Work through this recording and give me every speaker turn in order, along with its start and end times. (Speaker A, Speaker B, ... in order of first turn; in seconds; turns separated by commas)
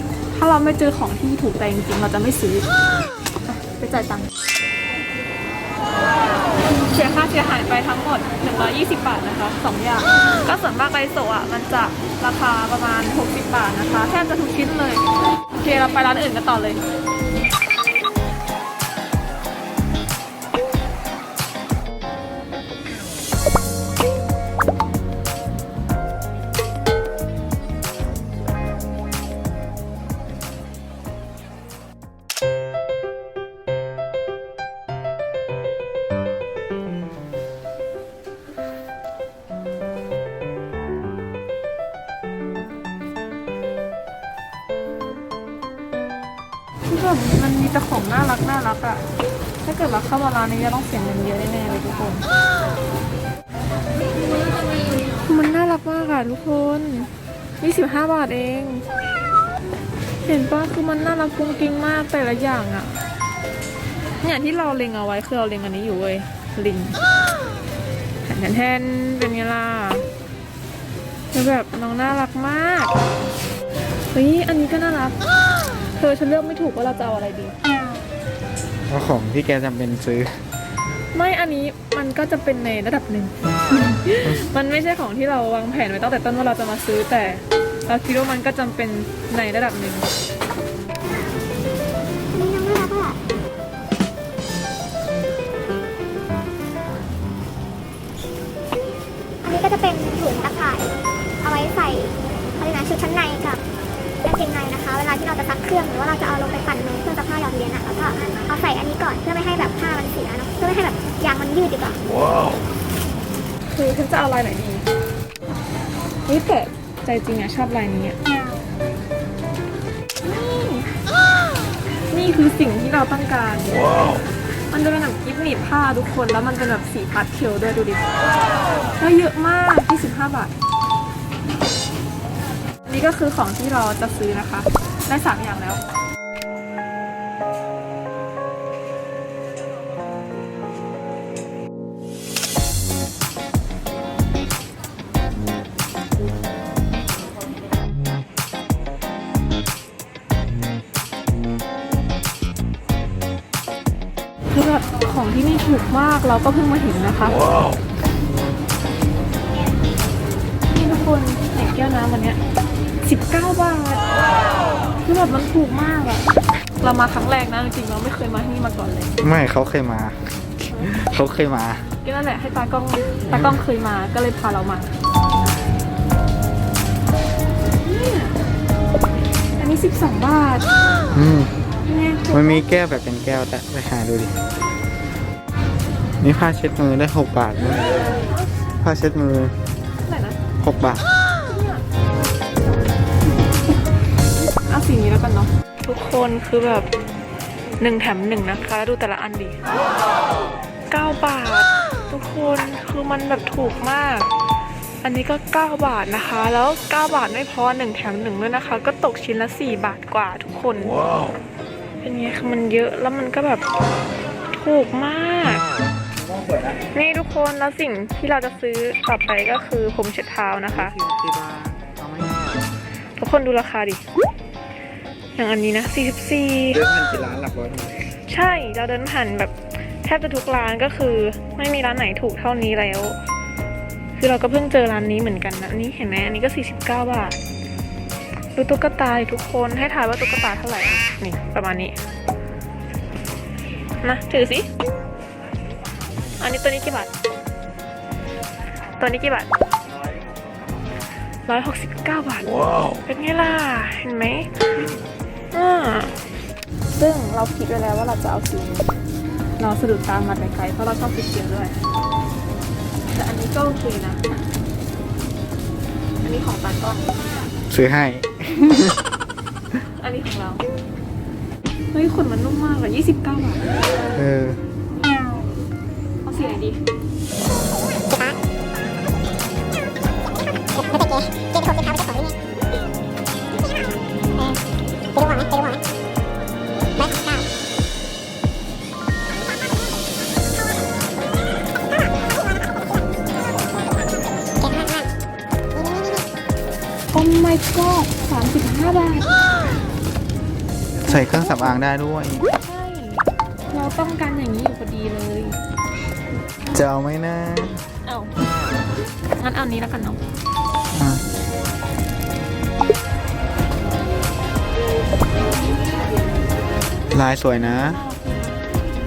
Speaker A: 0.3-2.7, Speaker A: 3.5-4.3, Speaker A: 6.9-15.0, Speaker A: 15.6-16.8, Speaker A: 46.9-49.0, Speaker A: 49.6-52.2, Speaker A: 55.2-58.9, Speaker A: 60.2-62.9, Speaker A: 64.2-67.0, Speaker A: 68.2-70.0, Speaker A: 71.3-72.9, Speaker A: 74.1-75.2, Speaker A: 76.0-77.5, Speaker B: 78.9-80.4, Speaker A: 81.1-90.1, Speaker C: 92.3-93.2, Speaker C: 99.4-103.6, Speaker C: 104.2-112.0, Speaker A: 113.7-114.9, Speaker A: 116.3-118.2, Speaker A: 120.2-120.9, Speaker A: 122.1-124.2, Speaker A: 124.7-128.1, Speaker A: 129.0-130.5, Speaker A: 132.8-135.8, Speaker A: 154.5-157.4, Speaker A: 160.7-162.4, Speaker A: 163.0-164.1, Speaker A: 165.0-166.3, Speaker A: 166.8-169.1, Speaker B: 169.2-171.9, Speaker A: 172.0-174.9, Speaker B: 173.3-173.6, Speaker A: 177.8-178.4, Speaker A: 179.6-180.7, Speaker B: 181.1-181.5, Speaker A: 181.8-182.7, Speaker B: 182.3-184.3, Speaker B: 186.2-187.8, Speaker B: 188.8-189.6, Speaker A: 190.0-190.4, Speaker B: 190.6-191.0, Speaker A: 191.4-191.8, Speaker A: 194.6-196.9, Speaker A: 197.8-199.6, Speaker A: 200.9-204.3, Speaker A: 205.0-211.0, Speaker A: 212.0-213.6, Speaker A: 214.5-215.6, Speaker B: 216.2-216.7, Speaker A: 216.9-221.0, Speaker B: 220.7-222.4, Speaker A: 223.2-224.0, Speaker A: 225.3-226.8, Speaker B: 226.7-228.0, Speaker A: 228.3-233.2, Speaker A: 234.2-237.4, Speaker A: 238.5-241.9, Speaker A: 244.0-244.7, Speaker A: 246.4-247.1, Speaker A: 249.0-249.5, Speaker A: 251.5-254.5, Speaker A: 255.5-256.1, Speaker A: 256.9-258.9, Speaker A: 259.6-261.8, Speaker A: 263.1-264.2, Speaker A: 266.2-267.1, Speaker B: 267.7-269.0, Speaker A: 269.8-270.6, Speaker A: 271.9-273.6, Speaker B: 274.1-274.6, Speaker A: 276.2-276.8, Speaker C: 280.8-282.3, Speaker C: 285.1-285.8, Speaker C: 287.0-287.4, Speaker A: 297.1-299.3, Speaker B: 301.0-302.5, Speaker A: 301.2-301.5, Speaker A: 302.6-305.6, Speaker B: 306.7-307.8, Speaker A: 308.0-308.3, Speaker A: 309.4-310.2, Speaker B: 310.9-311.2, Speaker B: 317.1-318.0, Speaker A: 317.8-318.6